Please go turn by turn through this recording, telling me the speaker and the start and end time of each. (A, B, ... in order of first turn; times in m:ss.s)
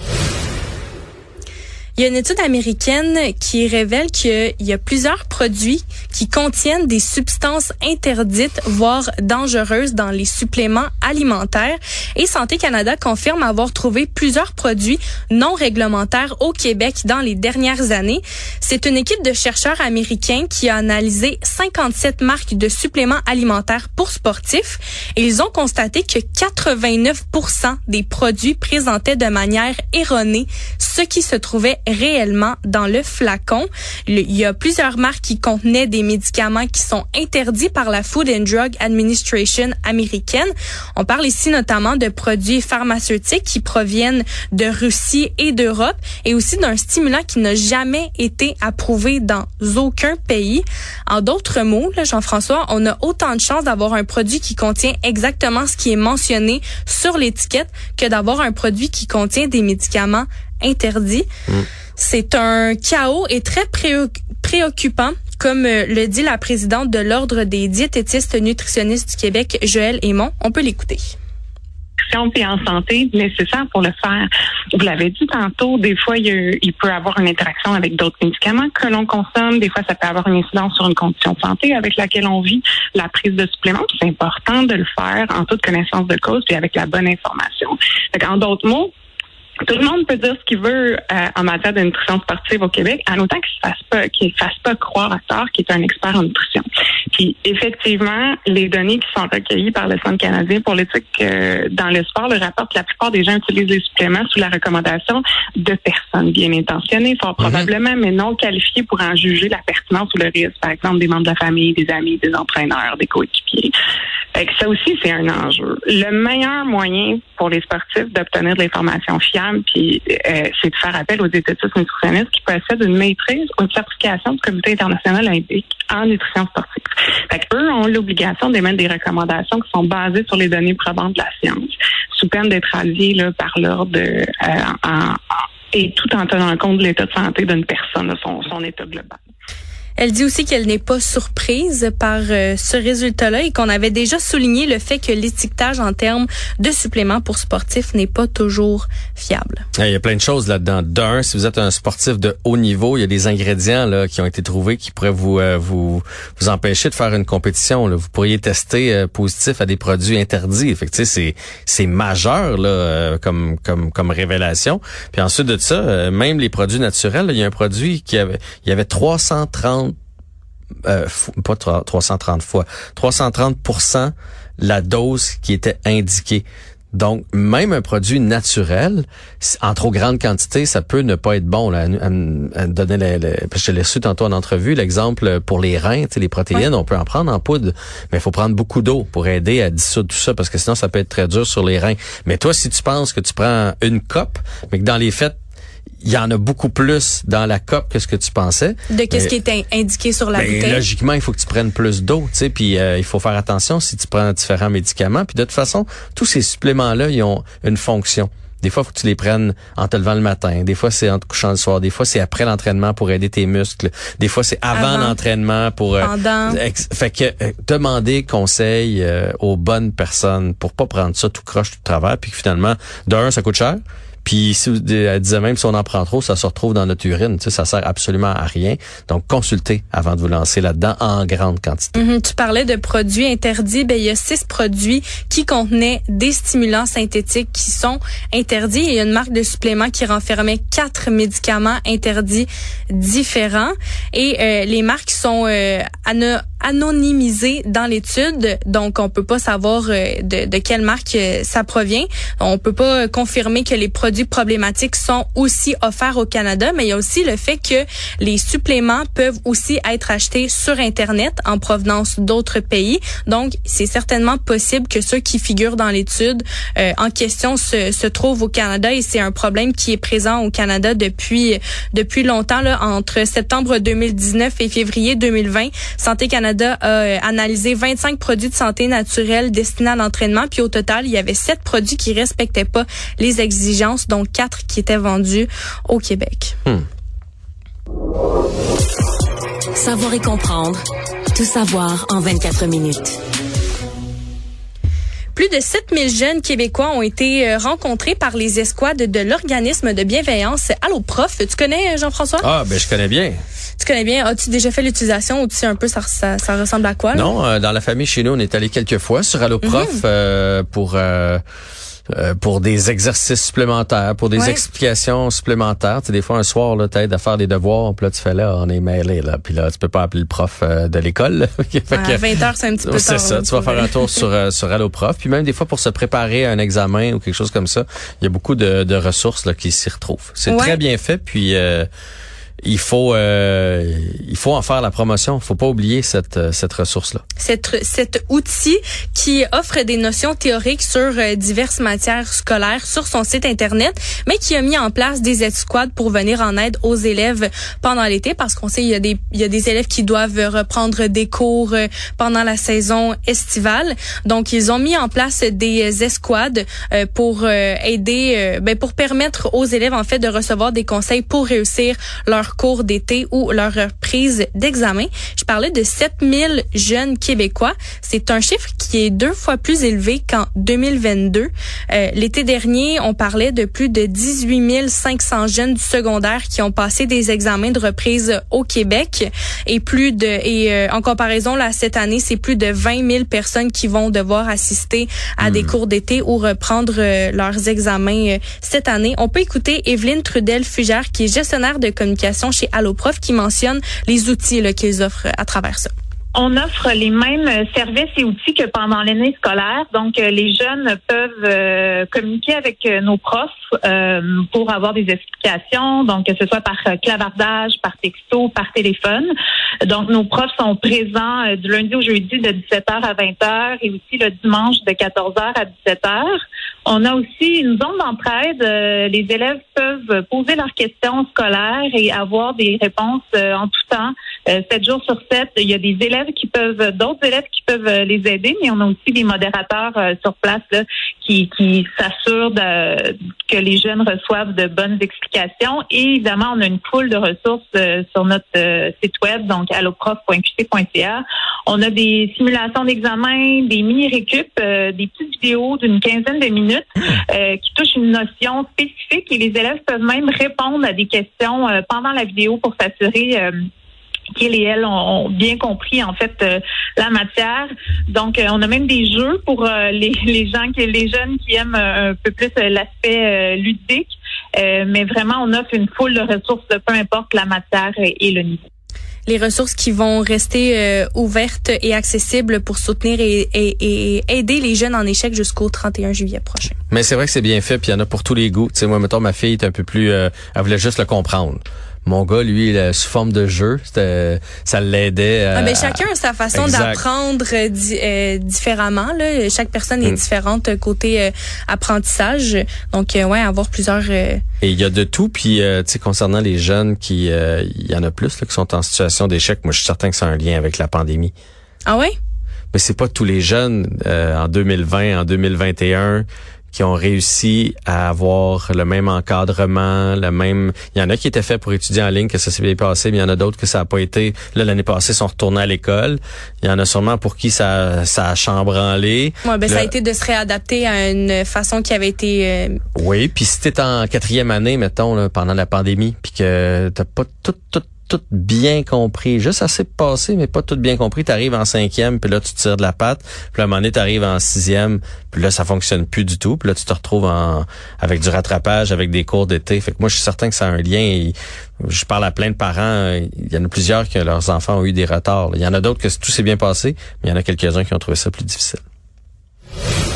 0:02.0-1:01.3 A
1:02.0-1:11.1 A
1:12.1-1:28.9 B
1:29.6-1:53.7 B
1:47.4-1:47.6 C
1:54.3-2:15.2 B
2:15.7-2:19.2 B
2:20.0-2:29.6 A
2:29.7-2:50.0 C
2:50.8-3:15.4 C
3:16.0-3:19.3 C
3:18.9-3:20.8 A
3:20.4-3:52.0 C
3:34.7-3:35.2 A
3:36.0-3:36.6 A
3:51.9-4:46.6 A
4:49.7-4:50.8 D
4:51.3-4:53.2 D
4:55.3-5:02.4 A
5:02.4-5:03.4 C
5:03.8-5:07.3 A
5:07.1-5:11.4 C
5:09.6-5:10.0 A
5:12.1-5:31.9 C
5:14.4-5:14.6 A
5:21.9-5:24.2 A
5:30.5-5:30.8 A
5:32.6-5:37.2 C
5:37.4-6:35.9 A
6:25.4-6:25.7 C
6:36.3-6:49.3 E
6:49.8-7:33.5 E
7:34.3-7:48.6 E
7:49.3-7:56.7 A
7:56.9-8:06.0 C
8:05.5-8:14.4 A
8:06.5-8:07.0 C
8:14.6-8:21.3 C
8:21.8-8:22.1 A
8:22.7-8:39.9 C
8:39.4-8:42.8 A
8:42.9-9:08.8 C